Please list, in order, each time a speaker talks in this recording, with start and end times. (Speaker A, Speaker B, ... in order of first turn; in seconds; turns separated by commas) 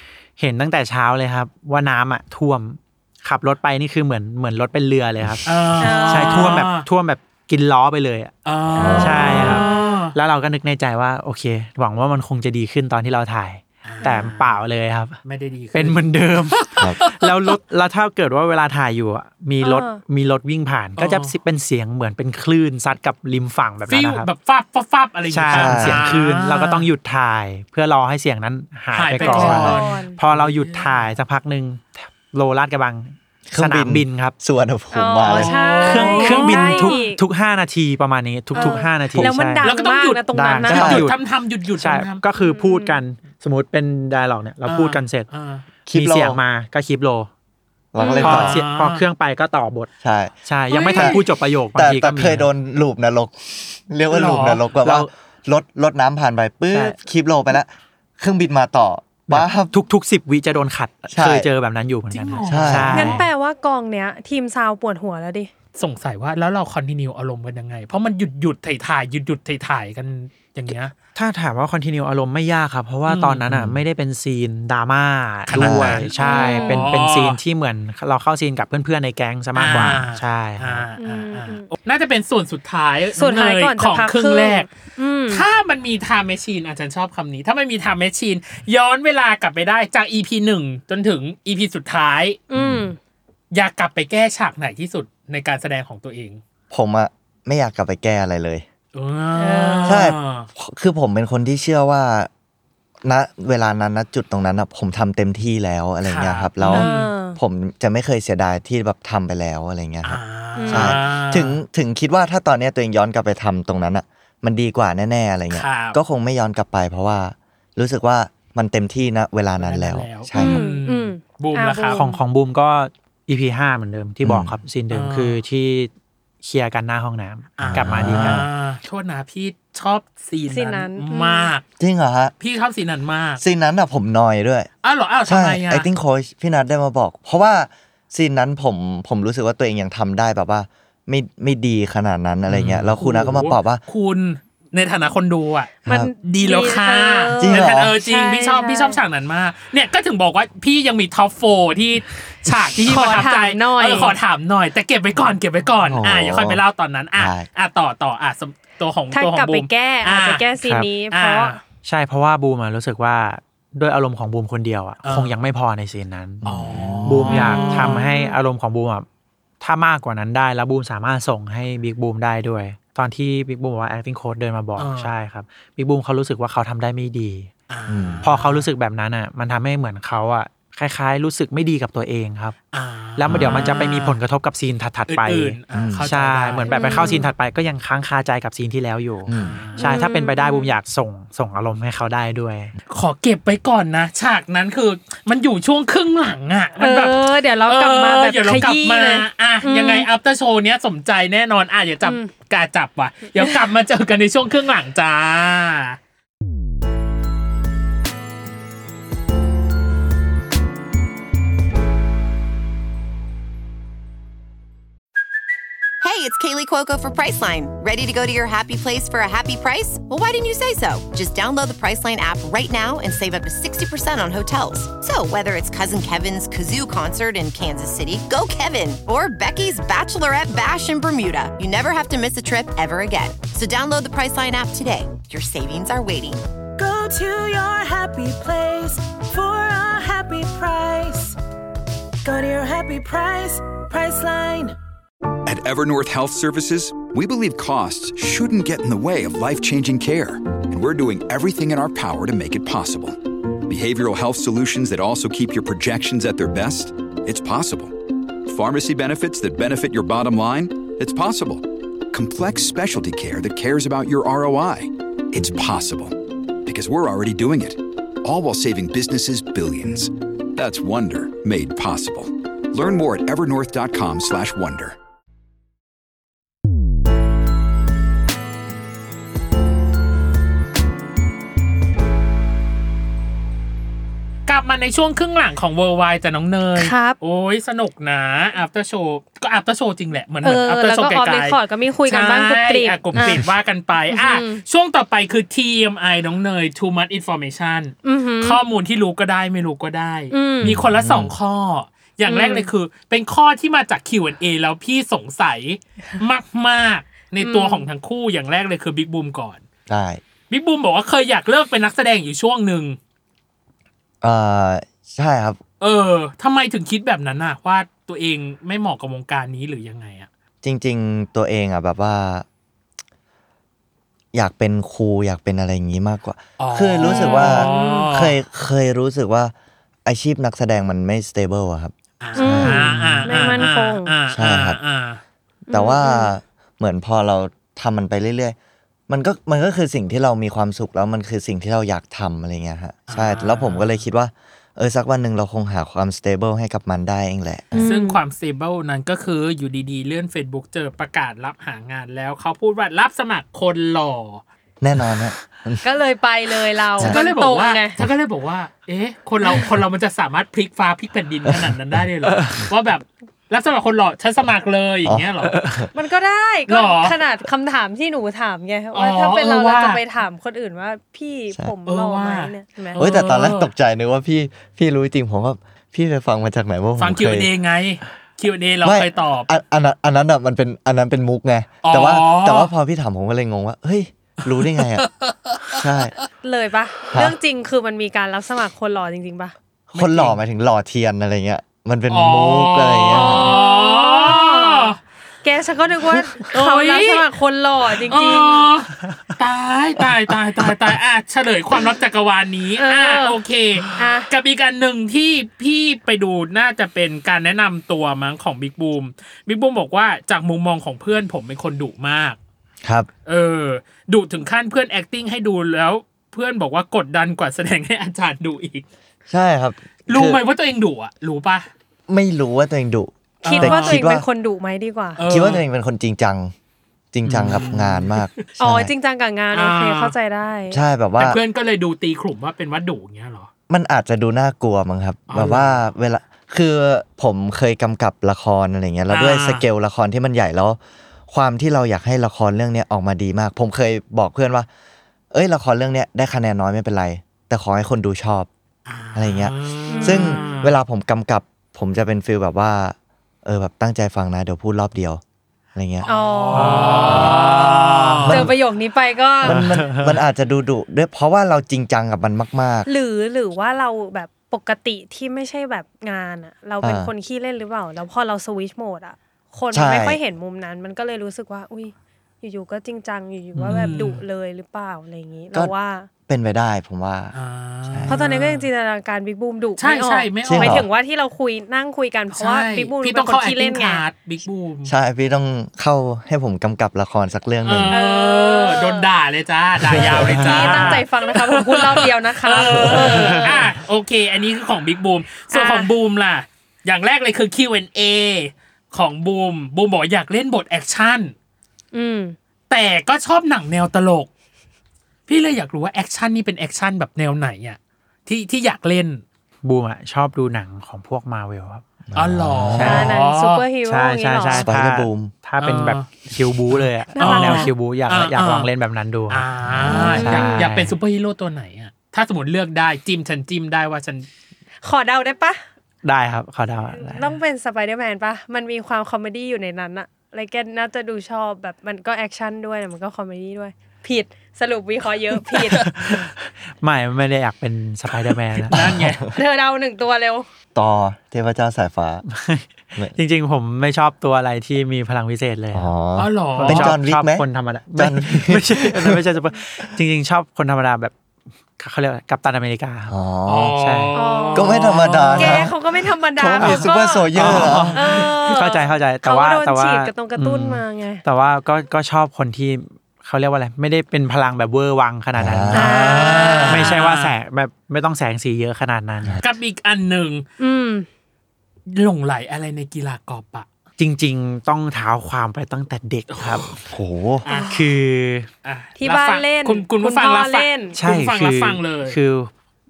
Speaker A: 0.4-8.3, Speaker B: 5.5-6.8, Speaker C: 5.8-6.6, Speaker B: 8.4-10.1, Speaker D: 8.7-9.6, Speaker A: 8.9-15.2, Speaker C: 9.0-9.9, Speaker B: 13.8-14.6, Speaker C: 14.0-14.3, Speaker B: 15.2-17.6, Speaker A: 15.7-24.3, Speaker C: 19.6-20.0, Speaker B: 21.0-21.3, Speaker B: 23.9-26.9, Speaker A: 25.3-34.4, Speaker D: 25.5-26.1, Speaker B: 28.9-31.1, Speaker C: 29.2-30.1, Speaker D: 29.4-29.8, Speaker D: 33.5-35.7, Speaker C: 34.9-37.2, Speaker B: 35.2-37.0, Speaker A: 35.8-39.7, Speaker C: 38.5-41.0, Speaker B: 39.6-42.2, Speaker A: 40.3-41.2, Speaker D: 40.7-41.1, Speaker A: 41.8-45.3, Speaker C: 42.4-43.0, Speaker B: 44.6-45.6, Speaker D: 45.9-46.4, Speaker A: 45.9-47.3, Speaker D: 47.9-48.6, Speaker C: 48.0-48.4, Speaker B: 48.2-49.0, Speaker A: 48.2-49.9, Speaker D: 50.0-50.3, Speaker A: 50.5-52.5, Speaker B: 50.7-51.2, Speaker D: 50.9-51.2, Speaker D: 51.7-59.7, Speaker B: 54.1-54.6, Speaker A: 54.8-55.1, Speaker A: 56.7-57.0, Speaker A: 59.3-63.3, Speaker D: 61.1-61.5, Speaker B: 62.1-63.1, Speaker D: 62.5-63.1, Speaker C: 62.9-65.5, Speaker B: 65.8-70.9, Speaker A: 71.1-80.9, Speaker B: 73.1-73.5, Speaker D: 73.5-73.8, Speaker B: 75.5-77.4, Speaker D: 75.5-76.1, Speaker C: 76.2-76.8, Speaker B: 79.5-84.7, Speaker C: 81.0-81.7, Speaker C: 83.2-85.4, Speaker B: 85.3-92.4, Speaker C: 92.5-93.0, Speaker D: 92.5-92.9, Speaker B: 93.5-96.4, Speaker D: 96.7-98.7, Speaker B: 98.9-100.5, Speaker C: 99.4-100.0, Speaker D: 99.8-102.3, Speaker D: 103.0-120.6, Speaker B: 106.0-107.1, Speaker C: 106.7-107.4, Speaker B: 110.0-111.6, Speaker C: 110.6-111.0, Speaker B: 115.5-116.0, Speaker B: 119.6-122.0, Speaker C: 120.4-122.2, Speaker A: 121.9-125.9, Speaker D: 124.2-124.5, Speaker B: 124.9-125.4, Speaker A: 126.4-128.4, Speaker B: 127.6-131.6, Speaker D: 127.7-128.4, Speaker C: 130.5-131.5, Speaker D: 131.8-132.3, Speaker B: 132.4-133.4, Speaker D: 133.4-134.7, Speaker B: 134.8-135.9, Speaker D: 135.2-143.8, Speaker B: 142.5-160.5, Speaker C: 145.8-149.0, Speaker D: 145.9-146.1, Speaker D: 147.4-147.9, Speaker C: 152.9-154.1, Speaker D: 155.9-156.6, Speaker D: 157.2-157.5, Speaker C: 159.1-161.6, Speaker A: 160.6-160.9, Speaker B: 161.1-161.6, Speaker A: 161.8-166.4, Speaker B: 165.0-165.3, Speaker D: 166.4-167.4, Speaker B: 166.4-168.0, Speaker A: 167.0-169.1, Speaker C: 167.3-168.3, Speaker A: 169.6-177.5, Speaker B: 174.8-175.1, Speaker B: 177.7-178.7, Speaker D: 177.9-178.3, Speaker A: 178.2-182.6, Speaker B: 182.7-184.2, Speaker A: 183.2-192.7, Speaker D: 183.3-183.6, Speaker B: 185.1-187.2, Speaker D: 185.7-186.1, Speaker C: 186.7-187.3, Speaker D: 189.3-189.6, Speaker B: 189.3-189.9, Speaker C: 189.8-190.7, Speaker B: 192.9-206.0, Speaker C: 196.8-200.1, Speaker C: 202.0-202.3, Speaker E: 216.0-236.4, Speaker F: 236.8-241.3, Speaker F: 242.2-244.8, Speaker G: 245.4-274.9, Speaker B: 284.5-309.6, Speaker C: 286.8-287.2, Speaker C: 290.4-293.4, Speaker C: 294.1-294.6, Speaker C: 298.0-298.6, Speaker C: 300.3-300.8, Speaker D: 300.6-301.3, Speaker C: 302.3-302.7, Speaker C: 307.4-307.9, Speaker D: 309.9-310.2, Speaker B: 310.5-313.0, Speaker D: 314.2-315.6, Speaker B: 315.8-320.3, Speaker D: 320.6-322.4, Speaker D: 324.3-329.5, Speaker B: 326.6-328.4, Speaker C: 327.0-328.1, Speaker D: 330.0-333.6, Speaker B: 332.2-335.2, Speaker C: 332.4-334.1, Speaker D: 334.3-334.8, Speaker C: 335.7-336.3, Speaker D: 335.7-338.6, Speaker D: 339.1-347.9, Speaker B: 343.1-343.9, Speaker C: 347.7-348.2, Speaker B: 347.8-354.4, Speaker D: 354.8-355.8, Speaker C: 355.8-357.9, Speaker B: 357.0-365.5, Speaker D: 361.5-361.7, Speaker A: 362.2-362.6, Speaker A: 365.5-365.9, Speaker C: 365.9-373.0, Speaker B: 366.7-367.2, Speaker B: 368.9-370.0, Speaker B: 371.9-373.7, Speaker D: 373.0-377.5, Speaker B: 377.0-379.5, Speaker D: 378.8-385.1, Speaker B: 381.8-382.7, Speaker B: 384.4-385.8, Speaker D: 385.7-386.1, Speaker C: 386.4-389.5, Speaker D: 389.9-393.6, Speaker B: 389.9-390.4, Speaker B: 392.1-394.9, Speaker C: 393.1-398.7, Speaker B: 396.5-397.2, Speaker B: 398.1-412.4, Speaker C: 402.8-403.4, Speaker C: 403.9-404.3, Speaker D: 412.8-413.1, Speaker B: 413.2-418.8, Speaker D: 419.3-420.4, Speaker B: 420.1-421.7, Speaker D: 422.1-424.2, Speaker B: 423.4-424.0, Speaker C: 423.4-425.2, Speaker B: 425.2-425.6, Speaker D: 425.3-426.5, Speaker D: 427.1-428.9, Speaker B: 427.3-428.3, Speaker C: 428.6-430.8, Speaker B: 429.5-430.1, Speaker D: 430.7-431.4, Speaker B: 431.2-433.5, Speaker D: 433.7-444.7, Speaker B: 435.3-435.9, Speaker B: 439.1-439.6, Speaker D: 445.3-448.5, Speaker B: 448.9-450.7, Speaker D: 449.1-455.2, Speaker C: 449.9-450.4, Speaker D: 455.7-456.1, Speaker B: 456.0-458.4, Speaker C: 456.1-457.3, Speaker A: 456.5-458.3, Speaker D: 457.1-457.4, Speaker D: 458.2-458.5, Speaker C: 458.3-459.6, Speaker D: 459.4-462.9, Speaker A: 459.4-460.2, Speaker C: 462.9-476.1, Speaker D: 466.8-467.1, Speaker D: 469.7-470.2, Speaker A: 473.6-473.9, Speaker B: 473.7-474.2, Speaker D: 476.3-477.3, Speaker B: 477.3-478.7, Speaker D: 477.9-478.2, Speaker C: 478.1-484.0, Speaker B: 479.8-480.8, Speaker D: 480.4-480.9, Speaker B: 482.3-484.9, Speaker D: 484.9-487.9, Speaker B: 487.6-501.3, Speaker C: 487.9-489.1, Speaker D: 489.9-490.4, Speaker C: 490.3-493.6, Speaker A: 490.6-491.0, Speaker C: 495.5-495.9, Speaker C: 501.9-502.4, Speaker B: 502.7-504.3, Speaker B: 505.3-509.2, Speaker A: 509.6-511.8, Speaker D: 512.1-513.1, Speaker B: 512.1-513.6, Speaker A: 512.7-513.2, Speaker C: 512.8-514.7, Speaker A: 513.8-520.9, Speaker D: 514.6-515.3, Speaker B: 515.6-518.7, Speaker C: 517.1-517.7, Speaker B: 519.3-524.3, Speaker D: 519.7-520.1, Speaker C: 519.9-520.7, Speaker C: 524.8-525.6, Speaker A: 526.0-527.3, Speaker C: 527.0-536.0, Speaker A: 535.8-539.0, Speaker B: 538.3-539.2, Speaker D: 538.7-539.1, Speaker C: 539.3-540.5, Speaker D: 540.7-542.2, Speaker A: 542.3-545.9, Speaker D: 545.7-547.4, Speaker B: 546.1-547.0, Speaker A: 546.5-551.1, Speaker D: 548.0-549.2, Speaker A: 551.8-553.1, Speaker D: 553.1-553.8, Speaker B: 553.5-555.6, Speaker A: 553.7-554.1, Speaker C: 554.1-554.8, Speaker D: 554.5-555.7, Speaker C: 555.4-557.3, Speaker D: 556.4-558.0, Speaker A: 556.6-566.1, Speaker B: 557.4-558.2, Speaker C: 557.9-561.2, Speaker D: 565.4-566.8, Speaker C: 565.7-567.0, Speaker B: 565.8-567.3, Speaker A: 566.7-569.4, Speaker B: 569.4-570.5, Speaker C: 570.6-571.1, Speaker B: 571.9-573.7, Speaker A: 574.0-576.6, Speaker B: 576.3-576.8, Speaker D: 576.8-577.4, Speaker B: 577.4-577.9, Speaker C: 577.5-577.7, Speaker A: 577.7-578.5, Speaker B: 578.6-582.2, Speaker C: 579.0-581.0, Speaker A: 580.9-582.5